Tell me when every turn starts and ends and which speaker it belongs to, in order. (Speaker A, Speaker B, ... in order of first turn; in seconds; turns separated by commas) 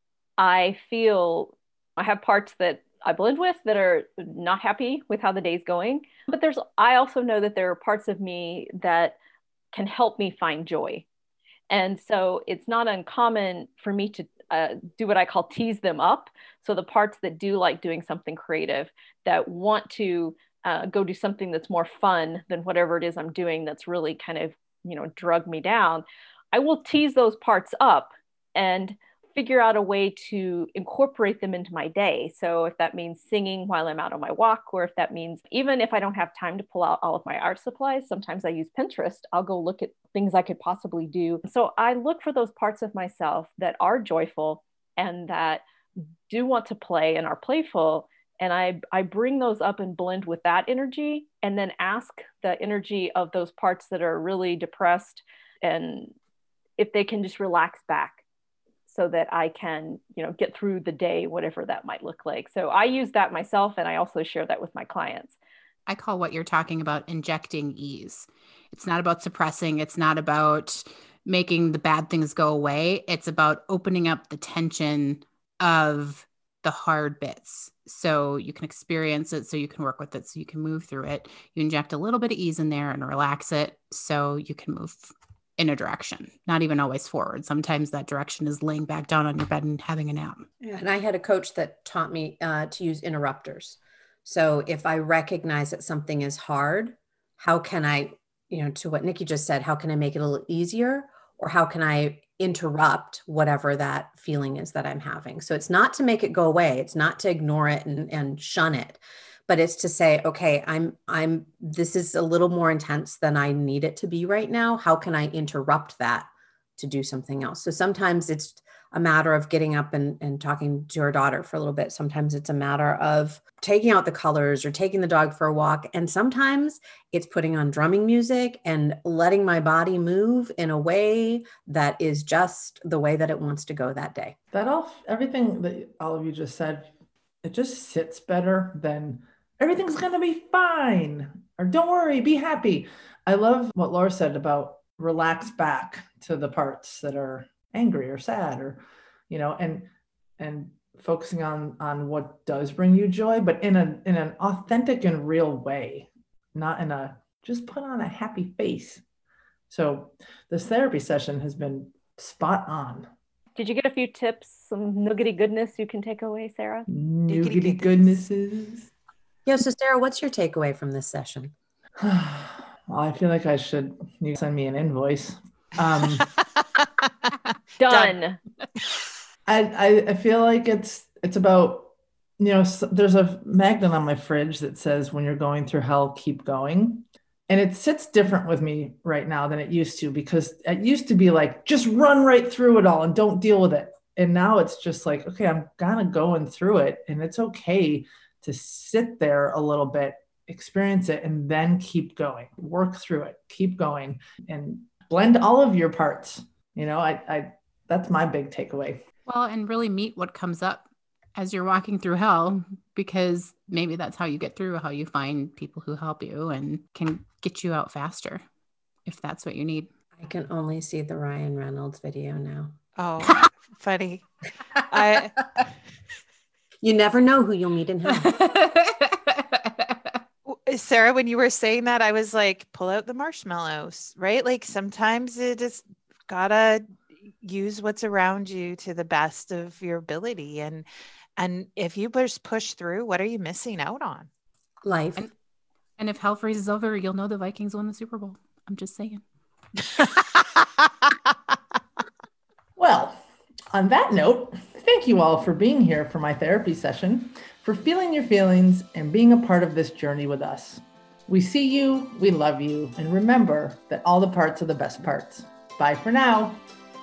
Speaker A: 0.4-9.2, Speaker A: 9.7-11.1, Speaker A: 11.7-45.6, Speaker A: 46.3-56.1, Speaker A: 56.8-58.2, Speaker A: 58.9-65.4, Speaker B: 65.9-90.5, Speaker C: 90.6-134.4, Speaker D: 134.5-136.9, Speaker D: 137.4-149.9, Speaker D: 150.4-159.0, Speaker D: 159.7-163.1, Speaker A: 163.6-166.9, Speaker D: 166.9-168.9, Speaker E: 167.3-168.1, Speaker C: 169.4-171.5, Speaker D: 172.0-176.3, Speaker E: 176.6-178.2, Speaker A: 177.8-178.4, Speaker D: 179.5-209.0, Speaker B: 209.2-218.4, Speaker B: 219.1-219.9, Speaker C: 220.2-222.7, Speaker E: 223.0-224.2, Speaker E: 224.9-225.3, Speaker C: 226.8-228.3, Speaker B: 228.1-230.2, Speaker E: 230.5-240.9, Speaker E: 241.4-244.3, Speaker C: 244.8-245.2, Speaker B: 246.0-249.2, Speaker D: 252.8-253.2, Speaker D: 253.7-266.6